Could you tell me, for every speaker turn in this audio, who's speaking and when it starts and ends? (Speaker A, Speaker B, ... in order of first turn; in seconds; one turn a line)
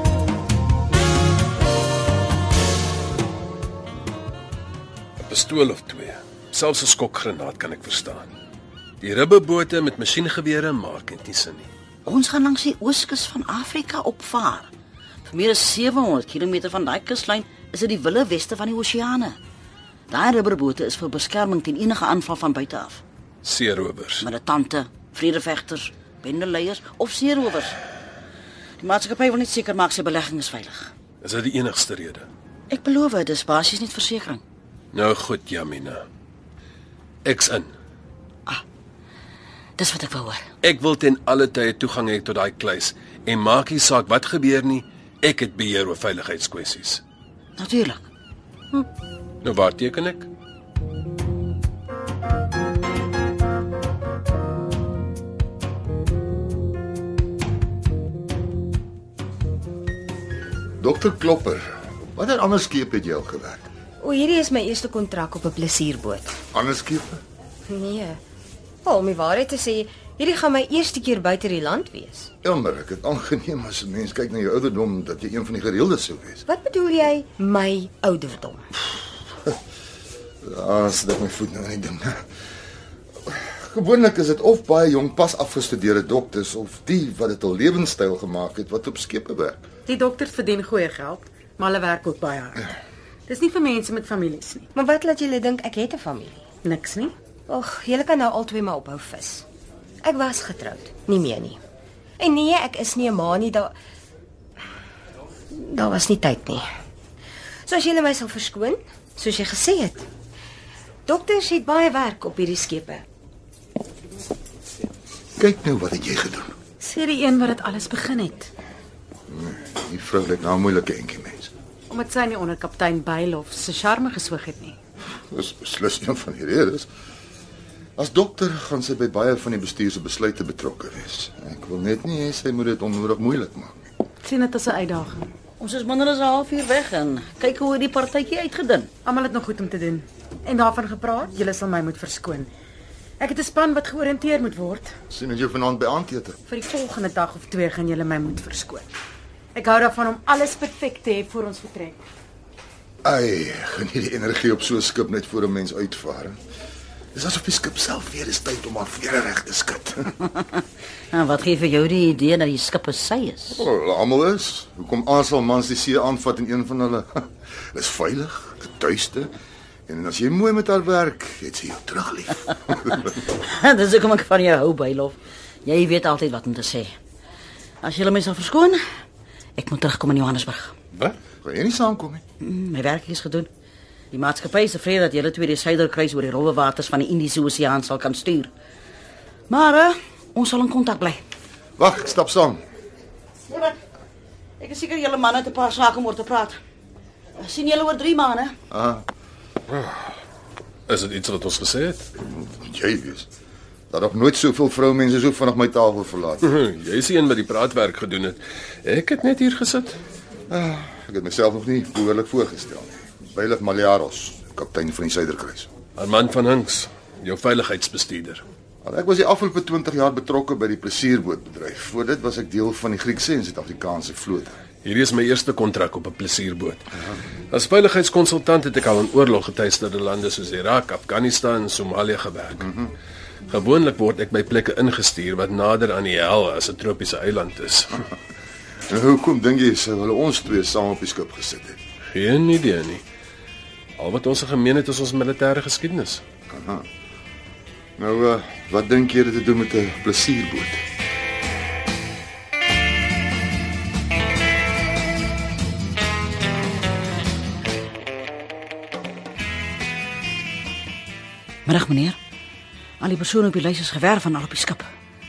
Speaker A: 5.2-8.3
Speaker A: 9.0-11.7
Speaker B: 12.0-14.7
Speaker B: 15.3-19.4
Speaker B: 20.1-23.0
Speaker A: 23.4-24.2
Speaker B: 24.2-27.8
Speaker B: 28.8-30.9
Speaker A: 31.2-32.3
Speaker B: 32.7-34.4
Speaker A: 34.9-36.0
Speaker A: 37.2-37.7
Speaker B: 39.8-40.4
Speaker A: 40.6-47.0
Speaker B: 47.6-48.0
Speaker A: 49.4-50.3
Speaker C: 60.8-63.6
Speaker D: 64.0-66.3
Speaker C: 66.5-67.2
Speaker D: 67.7-68.2
Speaker D: 68.8-72.3
Speaker C: 72.4-76.4
Speaker D: 76.5-78.7
Speaker C: 80.4-82.2
Speaker C: 83.3-89.6
Speaker E: 89.8-92.7
Speaker E: 93.3-94.7
Speaker D: 94.7-96.4
Speaker E: 96.6-97.1
Speaker D: 97.5-99.4
Speaker D: 100.0-101.6
Speaker D: 102.2-103.7
Speaker D: 105.5-106.6
Speaker D: 107.7-110.0
Speaker D: 111.0-113.0
Speaker C: 115.4-116.5
Speaker E: 116.8-118.5
Speaker C: 119.3-121.5
Speaker E: 121.9-124.8
Speaker C: 125.3-126.9
Speaker C: 128.0-133.8
Speaker E: 134.2-135.2
Speaker B: 135.6-138.9
Speaker E: 139.0-142.5
Speaker E: 143.2-144.9
Speaker C: 145.1-146.4
Speaker E: 146.5-148.8
Speaker E: 149.5-152.0
Speaker C: 153.0-156.4
Speaker C: 157.1-160.1
Speaker B: 161.1-163.6
Speaker C: 163.5-169.3
Speaker C: 169.9-173.1
Speaker B: 173.1-176.9
Speaker B: 177.8-178.8
Speaker B: 179.6-180.7
Speaker C: 181.4-182.2
Speaker B: 182.4-183.5
Speaker B: 184.1-188.5
Speaker B: 189.5-191.2
Speaker C: 191.8-192.6
Speaker B: 193.5-193.7
Speaker B: 194.6-196.6
Speaker B: 197.4-198.5
Speaker C: 198.7-199.0
Speaker A: 200.9-202.1
Speaker C: 202.2-203.3
Speaker C: 203.9-206.5
Speaker A: 206.4-210.0
Speaker C: 210.5-215.7
Speaker A: 215.9-218.4
Speaker C: 218.8-224.6
Speaker A: 224.8-226.9
Speaker A: 227.5-232.7
Speaker C: 232.6-232.9
Speaker A: 233.5-238.1
Speaker C: 238.9-241.8
Speaker A: 242.1-243.0
Speaker A: 244.0-246.2
Speaker C: 246.5-246.8
Speaker C: 248.0-250.8
Speaker B: 261.6-262.2
Speaker B: 263.0-264.9